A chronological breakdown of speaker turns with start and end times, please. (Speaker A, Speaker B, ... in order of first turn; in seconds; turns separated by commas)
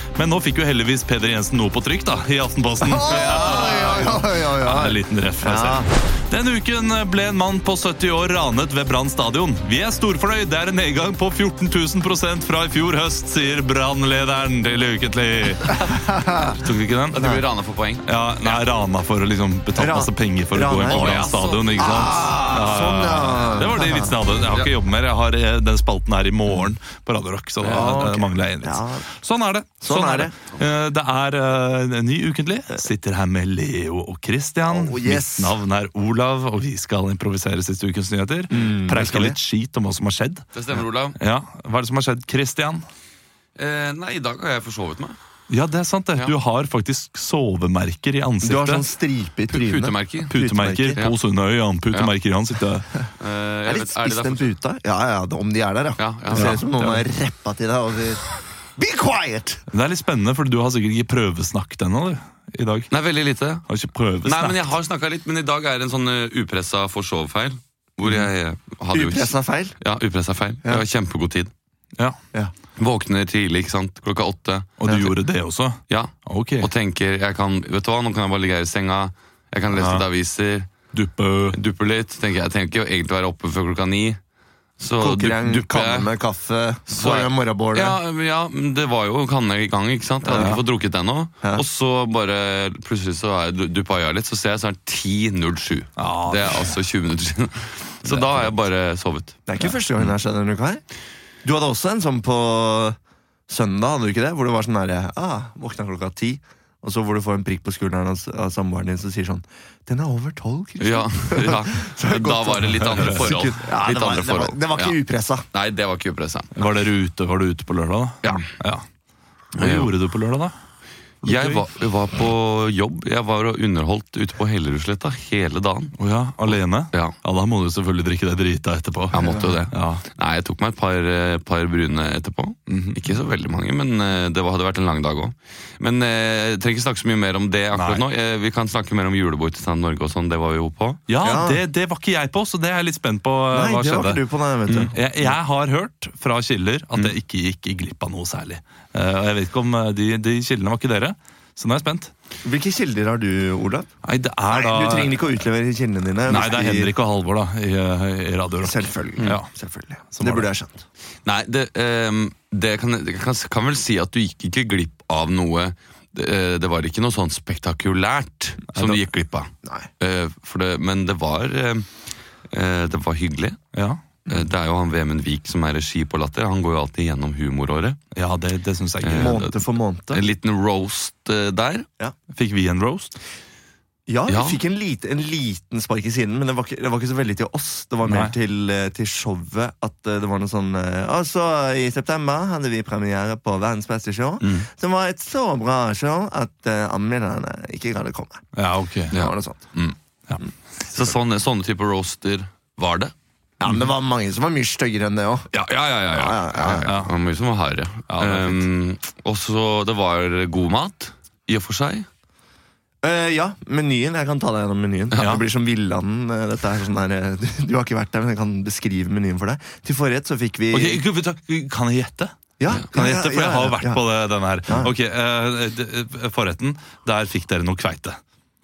Speaker A: 0.1-17.2, Speaker B: 2.8-5.9, Speaker C: 3.3-3.7, Speaker B: 15.9-16.6, Speaker C: 17.1-18.6, Speaker B: 17.1-17.4, Speaker A: 18.0-40.5, Speaker B: 19.7-21.2, Speaker C: 20.9-22.1, Speaker B: 21.8-24.1, Speaker C: 27.6-27.9, Speaker B: 27.7-29.0, Speaker B: 29.8-30.3, Speaker B: 34.6-35.6, Speaker B: 38.5-39.4, Speaker C: 40.5-41.2, Speaker A: 41.2-42.9, Speaker C: 43.5-45.2, Speaker A: 45.5-48.9, Speaker B: 48.4-51.0, Speaker C: 49.5-50.4, Speaker A: 50.3-52.9, Speaker C: 53.2-54.5, Speaker B: 53.7-58.2, Speaker C: 56.0-56.6, Speaker A: 56.3-57.0, Speaker B: 58.8-59.6, Speaker A: 59.7-62.9, Speaker C: 62.9-63.6, Speaker A: 63.7-64.7, Speaker C: 64.2-71.5, Speaker B: 68.9-69.8, Speaker C: 72.8-75.1, Speaker A: 74.8-76.7, Speaker C: 75.9-80.8, Speaker A: 79.7-80.0, Speaker A: 80.9-81.6, Speaker C: 81.5-84.2, Speaker C: 84.8-86.1, Speaker B: 85.0-88.0, Speaker C: 86.9-99.7, Speaker B: 90.2-90.6, Speaker A: 90.3-90.6, Speaker A: 96.0-96.8, Speaker B: 98.1-98.5, Speaker B: 99.5-100.8, Speaker B: 101.4-103.0, Speaker B: 103.5-115.5, Speaker C: 110.8-115.0, Speaker A: 112.8-113.2, Speaker C: 115.5-116.5, Speaker A: 116.5-118.8, Speaker C: 118.2-118.5, Speaker A: 119.5-120.5, Speaker C: 119.5-119.9, Speaker A: 121.2-121.6, Speaker C: 121.2-126.0, Speaker A: 126.0-130.0, Speaker C: 129.1-141.0, Speaker A: 132.7-133.0, Speaker A: 137.7-138.1, Speaker A: 141.1-144.2, Speaker B: 141.2-141.6, Speaker B: 143.5-145.3, Speaker C: 144.7-144.9, Speaker A: 144.9-152.1, Speaker B: 152.4-153.9, Speaker A: 154.0-155.2, Speaker B: 154.5-156.9, Speaker A: 156.3-159.5, Speaker B: 158.6-160.8, Speaker A: 160.1-160.5, Speaker C: 161.2-171.9, Speaker C: 172.5-173.6, Speaker A: 173.7-174.0, Speaker C: 174.3-178.0, Speaker A: 178.1-179.5, Speaker C: 179.0-181.8, Speaker B: 179.2-180.2, Speaker A: 182.3-183.1, Speaker B: 184.1-198.4, Speaker C: 184.3-184.6, Speaker A: 188.1-188.3, Speaker C: 194.4-194.7, Speaker A: 198.5-199.1, Speaker B: 199.1-199.7, Speaker C: 199.1-199.9, Speaker C: 200.8-203.1, Speaker B: 203.6-205.5, Speaker C: 205.5-212.1, Speaker B: 206.1-206.9, Speaker A: 206.8-207.1, Speaker A: 208.1-208.7, Speaker B: 213.0-221.0, Speaker A: 215.2-215.4, Speaker A: 220.7-228.2, Speaker B: 222.6-224.0, Speaker B: 224.7-224.9